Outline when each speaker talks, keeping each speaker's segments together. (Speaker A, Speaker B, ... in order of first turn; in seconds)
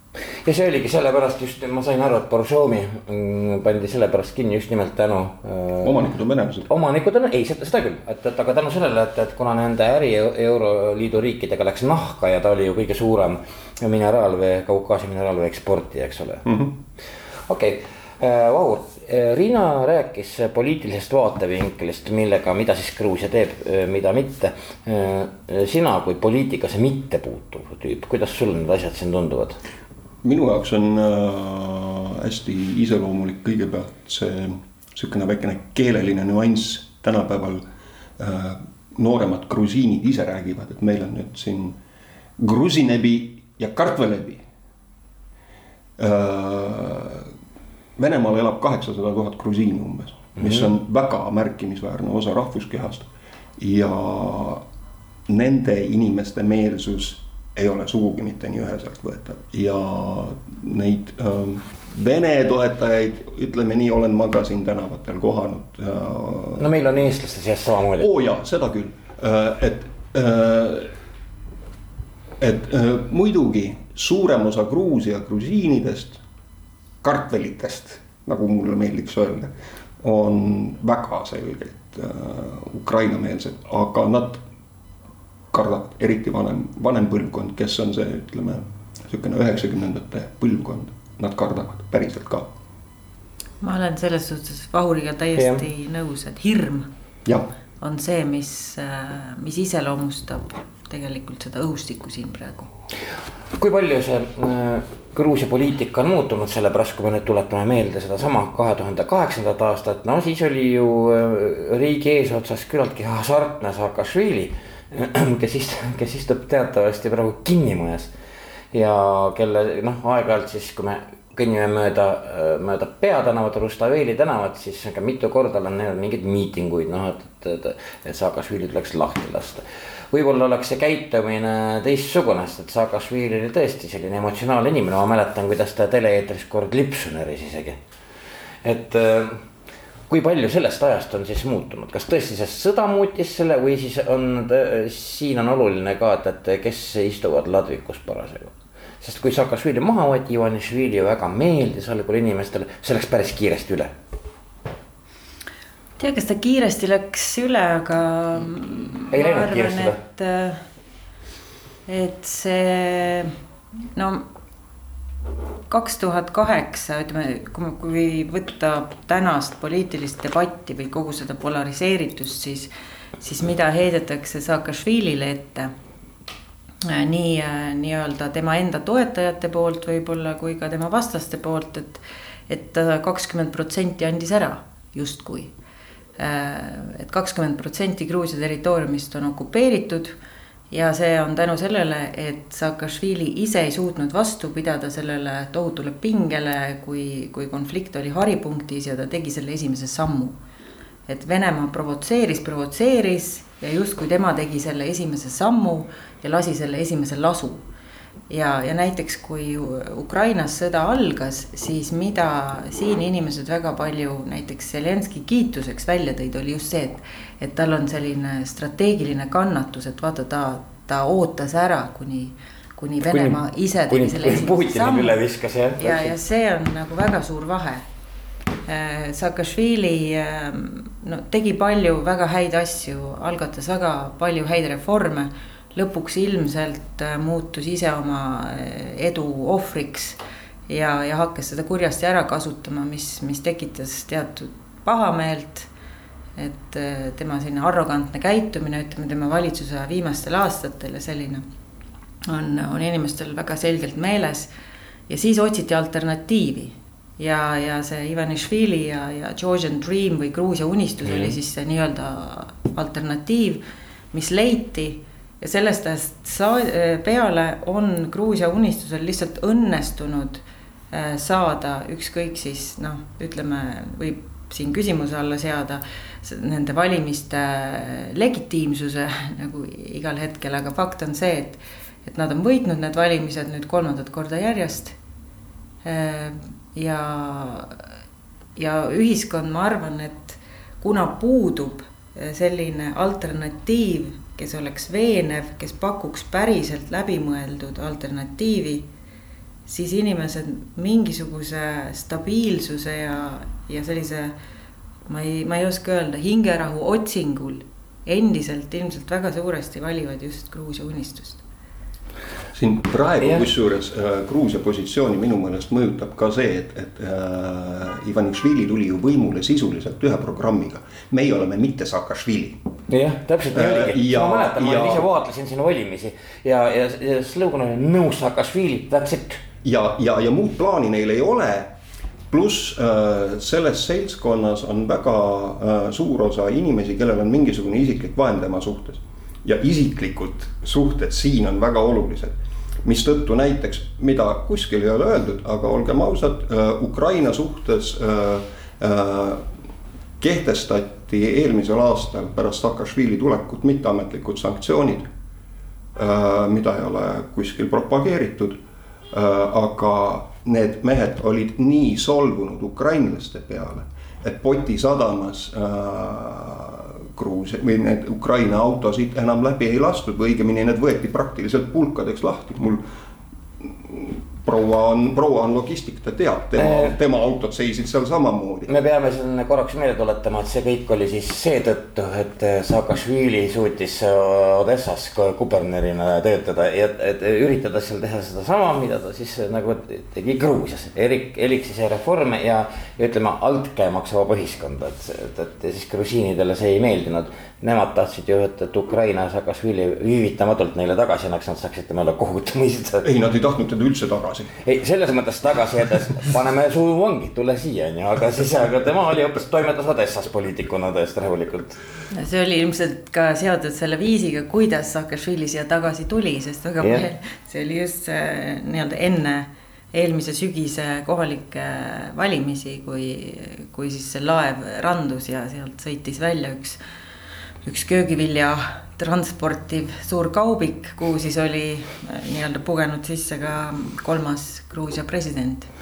Speaker A: 0.4-6.1, 6.7-16.4, 17.5-29.6, 50.4-50.7, 66.6-68.1, 103.5-118.1, 118.7-137.8, 138.6-139.4, 140.1-153.9, 159.1-160.0, 223.1-223.4, 223.9-226.1, 261.1-261.3, 322.9-329.4, 376.6-376.9, 378.7-403.1, 404.6-411.8, 416.8-417.1
Speaker B: 5.8-6.7, 16.4-16.7, 30.2-37.6, 38.2-41.8, 42.4-44.4, 46.0-47.3, 48.0-54.6, 55.3-66.7, 68.0-70.9, 72.4-76.2, 77.0-84.4, 85.5-92.5, 312.5-322.6, 323.5-325.1, 329.6-331.7, 332.3-349.4, 350.2-355.1, 355.9-358.6, 359.1-372.8, 373.6-378.7, 403.0-404.5
Speaker C: 93.6-96.9, 97.8-102.7, 156.0-160.6, 161.9-163.3, 163.9-164.2, 165.7-172.7, 173.2-175.7, 176.8-185.5, 186.2-190.1, 190.7-200.4, 201.1-207.6, 208.3-225.2, 225.8-227.8, 228.7-245.7, 246.4-251.4, 252.3-254.5, 255.1-263.6, 264.1-284.9, 285.8-287.7, 288.6-298.8, 299.6-304.3, 305.1-311.4, 412.1-426.8, 427.6-435.7